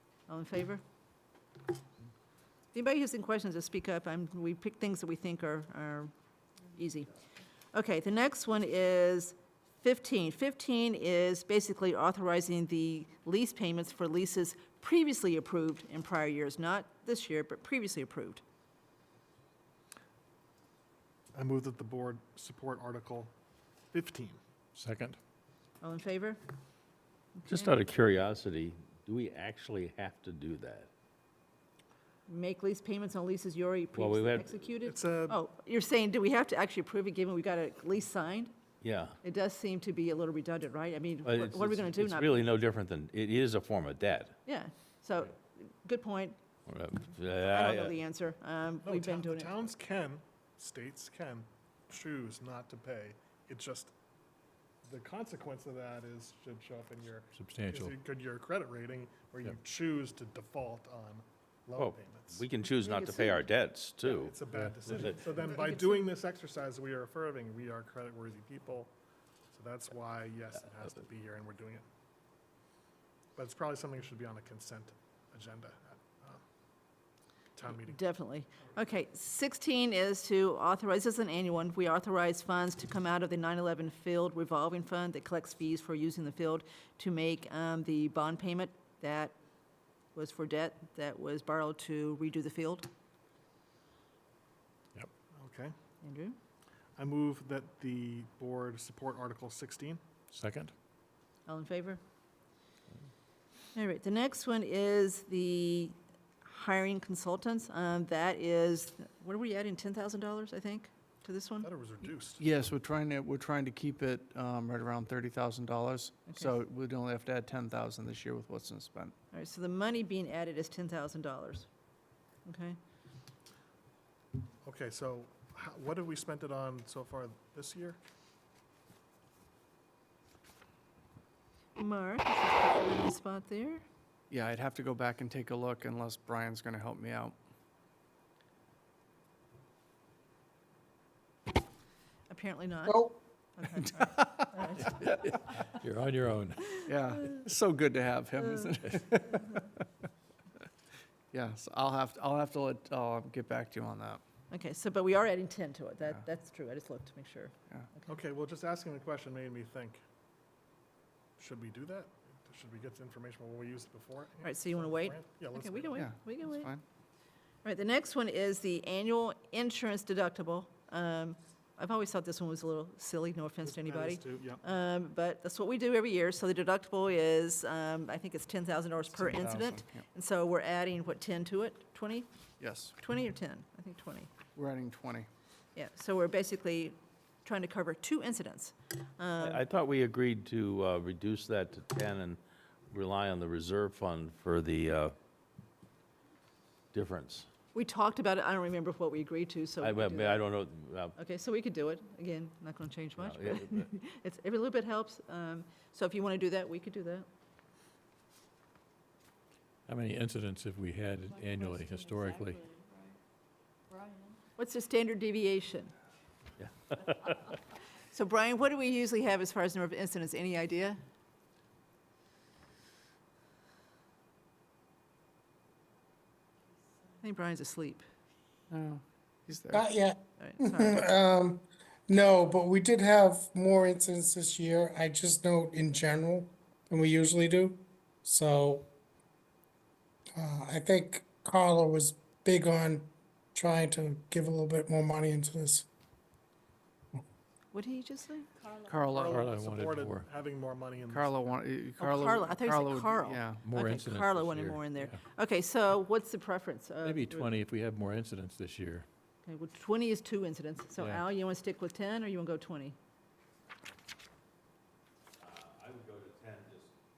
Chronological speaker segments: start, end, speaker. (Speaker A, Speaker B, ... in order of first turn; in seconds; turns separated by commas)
Speaker A: 0.3-0.8, Speaker A: 2.7-6.1, Speaker A: 6.8-7.1, Speaker A: 7.7-18.4, Speaker B: 21.3-23.3, Speaker B: 23.9-24.4, Speaker C: 24.8-25.2, Speaker A: 25.8-26.4, Speaker A: 27.4-27.8, Speaker D: 27.5-30.9, Speaker A: 32.3-38.5, Speaker D: 34.0-34.7, Speaker B: 34.8-35.4, Speaker D: 38.8-39.2, Speaker A: 39.2-42.4, Speaker D: 41.2-44.4, Speaker A: 44.5-46.4, Speaker D: 46.7-48.0, Speaker A: 47.4-49.5, Speaker B: 48.8-53.9, Speaker B: 54.8-62.4, Speaker C: 57.4-57.9, Speaker D: 61.8-64.3, Speaker A: 62.8-63.5, Speaker B: 64.0-68.9, Speaker A: 65.5-66.0, Speaker B: 69.5-71.8, Speaker B: 73.4-76.4, Speaker B: 77.5-78.0, Speaker A: 77.8-89.3, Speaker A: 90.1-92.9, Speaker B: 95.3-95.7, Speaker A: 96.0-96.3, Speaker B: 97.0-100.0, Speaker C: 100.3-100.7, Speaker A: 101.5-102.0, Speaker A: 103.7-111.7, Speaker B: 111.6-112.4, Speaker E: 112.4-119.1, Speaker A: 119.3-121.7, Speaker A: 122.5-122.8, Speaker B: 124.6-128.0, Speaker A: 131.8-133.8, Speaker E: 134.3-137.3, Speaker A: 142.3-143.0, Speaker F: 142.9-143.2, Speaker A: 143.6-145.2, Speaker E: 144.0-145.3, Speaker C: 145.7-146.8, Speaker E: 146.8-149.7, Speaker E: 151.3-154.2, Speaker A: 154.5-158.2, Speaker B: 158.1-160.0, Speaker B: 161.4-166.1, Speaker A: 164.4-166.7, Speaker E: 166.0-166.8, Speaker A: 167.6-182.3, Speaker B: 173.6-174.6, Speaker E: 179.1-180.0, Speaker E: 182.6-182.9, Speaker A: 183.0-184.3, Speaker E: 184.5-185.3, Speaker A: 185.8-189.6, Speaker D: 189.4-192.4, Speaker D: 192.9-195.1, Speaker D: 196.9-197.5, Speaker A: 197.7-200.4, Speaker D: 199.8-201.1, Speaker A: 201.2-207.3, Speaker D: 203.2-203.9, Speaker C: 209.9-212.6, Speaker A: 214.6-215.9, Speaker D: 216.6-217.3, Speaker A: 218.1-221.0, Speaker A: 227.2-228.0, Speaker E: 228.7-229.8, Speaker F: 229.7-238.9, Speaker A: 230.4-231.1, Speaker F: 240.3-245.8, Speaker A: 247.7-248.5, Speaker E: 248.8-249.4, Speaker B: 249.1-251.6, Speaker C: 249.3-250.3, Speaker E: 251.1-253.7, Speaker A: 252.0-257.5, Speaker C: 253.6-255.1, Speaker C: 257.0-259.1, Speaker A: 259.4-262.9, Speaker D: 265.4-266.9